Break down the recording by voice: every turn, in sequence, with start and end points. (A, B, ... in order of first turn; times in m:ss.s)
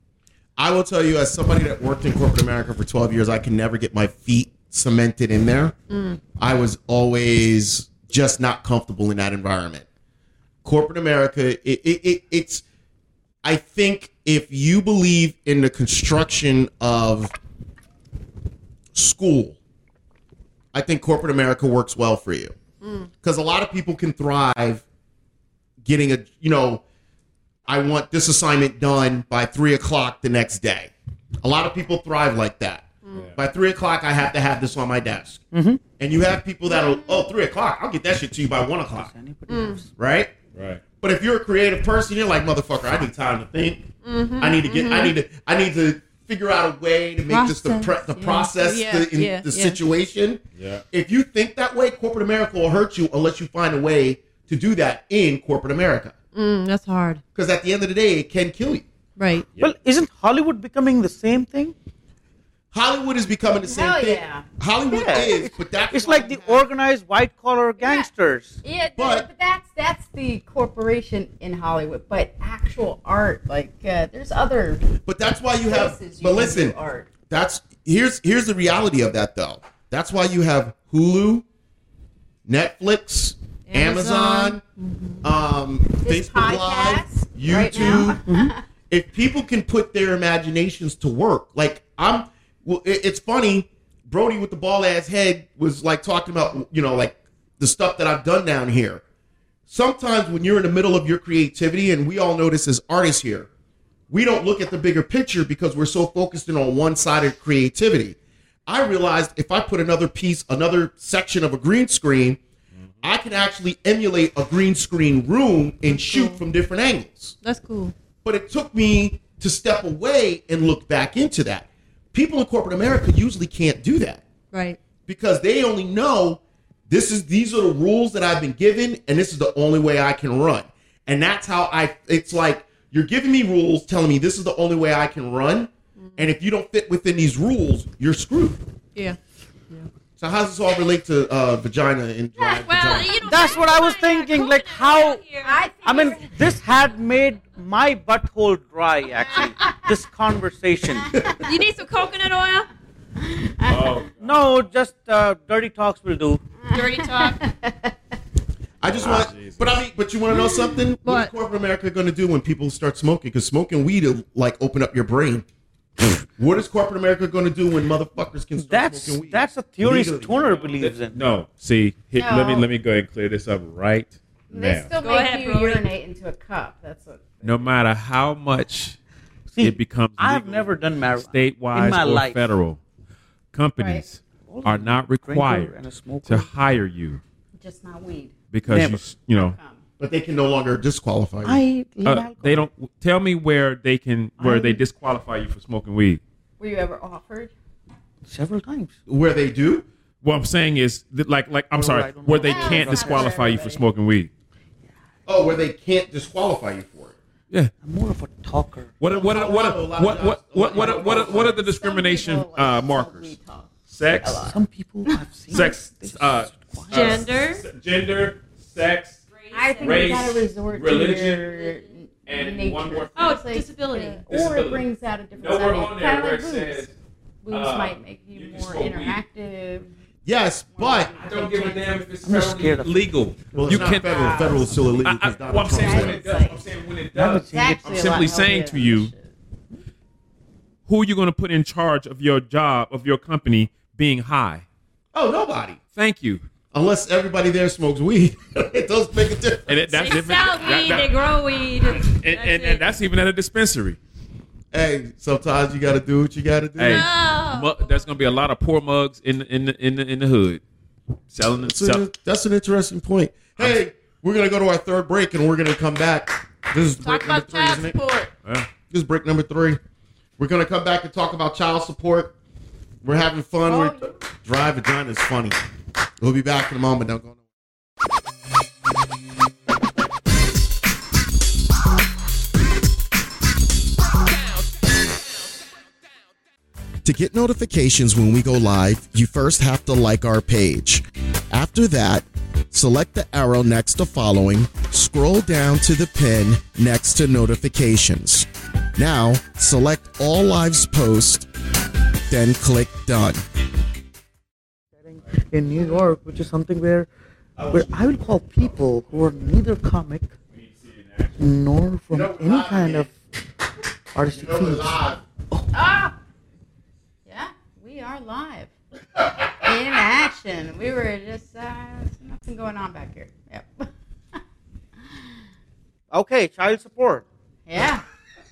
0:00.6-0:05.8 A
0:05.9-0:06.2 B
0:06.4-0:09.8 A
0:10.6-0:12.6 A
0:13.4-0:17.3 A
0:19.0-0:19.6 A
0:20.7-0:22.6 A
0:22.8-0:23.1 B
0:23.2-0:24.8 A
0:25.8-0:26.8 A
0:27.7-0:30.9 A
0:31.4-0:35.4 A
0:35.5-0:35.8 C
0:36.0-0:39.1 A
0:36.7-0:37.2 B
0:39.0-0:39.9 C
0:39.5-0:39.8 B
0:40.0-0:40.3 A
0:40.6-0:40.8 D
0:41.0-0:56.2 A
0:44.0-0:45.2 B
0:47.3-0:49.8 B
0:50.6-0:50.8 D
0:56.3-0:57.2 B
0:57.4-0:58.9 A
0:59.2-0:59.5 B
0:59.6-1:01.7 C
1:02.7-1:06.7 A
1:03.6-1:04.5 E
1:04.9-1:08.6 C
1:07.8-1:08.1 E
1:08.6-1:14.9 E
1:09.0-1:09.3 A
1:15.0-1:16.8 A
1:15.6-1:17.1 E
1:17.3-1:21.4 A
1:22.5-1:24.6 A
1:23.7-1:25.2 B
1:25.2-1:28.2 A
1:26.0-1:28.6 E
1:27.7-1:28.5 C
1:28.9-1:39.0 A
1:39.7-1:43.5 A
1:44.1-1:48.2 A
1:48.7-1:52.4 A
1:53.0-1:57.4 A
1:55.9-1:56.4 B
1:57.4-1:57.9 B
1:58.2-2:04.2 A
2:04.5-2:04.8 B
2:05.1-2:18.6 A
2:16.0-2:16.3 B
2:20.2-2:23.4 A
2:22.4-2:25.7 B
2:23.2-2:25.2 C
2:25.4-2:26.3 E
2:25.8-2:31.2 C
2:29.3-2:29.9 E
2:31.1-2:31.5 E
2:31.2-2:31.4 A
2:31.4-2:32.7 B
2:33.2-2:34.0 E
2:33.7-2:34.6 D
2:34.2-2:36.4 C
2:36.6-2:38.0 E
2:36.7-2:37.4 B
2:38.8-2:45.4 A
2:38.8-2:39.8 D
2:41.0-2:41.3 B
2:46.4-2:50.4 A
2:48.6-2:51.2 C
2:50.4-2:54.9 D
2:52.2-2:52.7 E
2:54.5-2:57.7 E
2:55.0-2:55.9 B
2:57.4-2:59.0 D
2:59.5-3:02.5 C
2:59.6-3:02.8 D
3:03.5-3:07.2 D
3:03.8-3:04.0 E
3:04.5-3:06.5 C
3:07.6-3:08.3 E
3:08.5-3:09.6 D
3:08.7-3:09.0 C
3:09.3-3:09.8 E
3:10.0-3:11.6 A
3:11.4-3:12.7 C
3:12.0-3:16.2 D
3:14.4-3:14.8 C
3:16.6-3:17.5 E
3:18.3-3:19.0 C
3:19.1-3:19.8 A
3:20.2-3:24.3 D
3:21.7-3:23.4 C
3:22.4-3:23.8 E
3:25.3-3:27.2 A
3:27.8-3:29.0 C
3:29.0-3:33.4 D
3:29.1-3:31.6 A
3:30.8-3:35.7 E
3:33.9-3:34.6 D
3:34.4-3:37.3 C
3:35.5-3:39.2 D
3:36.9-3:37.6 B
3:39.3-3:40.4 B
3:39.5-3:46.9 E
3:39.8-3:41.5 D
3:41.5-3:41.9 B
3:42.3-3:43.4 D
3:43.2-3:44.2 B
3:44.3-3:44.8 D
3:45.4-3:46.9 D
3:47.4-3:49.9 E
3:47.5-3:49.2 D
3:50.3-3:51.1 A
3:50.7-3:52.0 E
3:51.2-3:59.1 D
3:52.2-3:52.9 C
3:53.5-3:54.2 C
3:53.6-3:56.3 A
3:54.0-3:56.6 E
3:57.1-3:58.2 C
3:57.5-3:59.3 E
4:00.9-4:04.6 D
4:05.1-4:05.8 A
4:05.9-4:06.4 D
4:06.7-4:10.1 A
4:09.7-4:14.0 D
4:09.9-4:12.8 B
4:14.7-4:17.1 A
4:16.8-4:20.6 D
4:16.9-4:18.1 B
4:21.3-4:22.1 D
4:21.6-4:28.0 A
4:27.0-4:28.3 B
4:28.9-4:29.8 A
4:30.4-4:32.3 A
4:33.0-4:35.6 A
4:33.7-4:34.2 E
4:36.2-4:37.4 A
4:47.0-5:01.5 A
5:02.3-5:03.4 A
5:05.0-5:07.1 C
5:07.6-5:08.7 A
5:07.7-5:10.3 C
5:10.5-5:11.4 D
5:11.4-5:13.1 C
5:12.1-5:13.1 A
5:14.1-5:14.9 C
5:14.3-5:15.2 A
5:15.7-5:16.2 E
5:17.3-5:18.7 E
5:19.6-5:23.9 E
5:26.1-5:27.2 C
5:27.7-5:28.0 E